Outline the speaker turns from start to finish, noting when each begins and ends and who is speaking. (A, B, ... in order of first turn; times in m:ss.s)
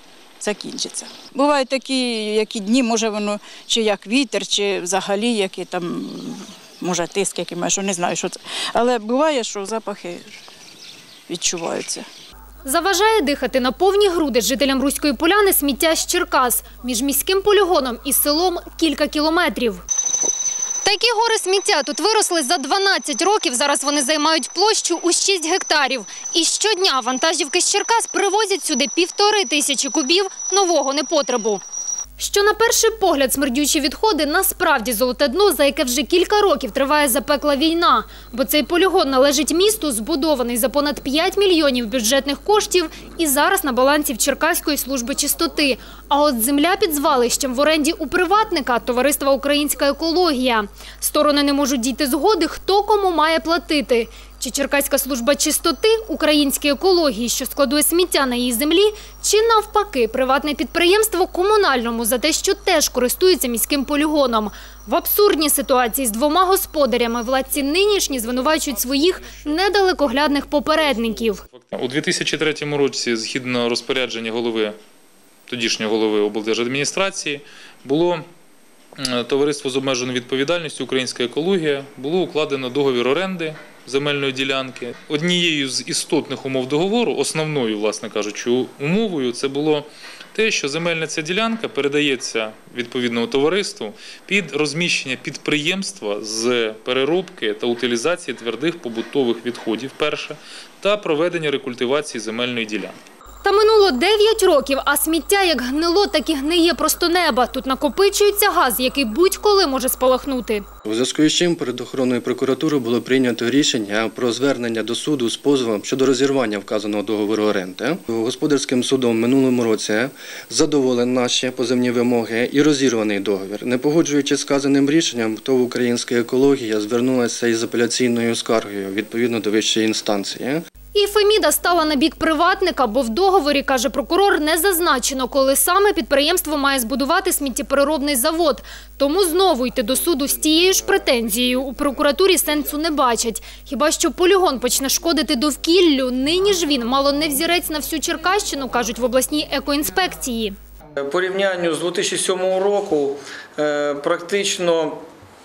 0:00.4-0:10.2 A
0:11.3-0:12.0 A
0:12.6-0:19.8 B
0:20.8-0:31.6 B
0:32.2-1:11.4 B
1:11.6-1:14.8 C
1:15.5-1:18.2 C
1:19.0-1:42.9 C
1:43.4-1:50.6 B
1:50.8-2:10.6 D
2:10.9-2:30.5 B
2:31.0-2:35.1 E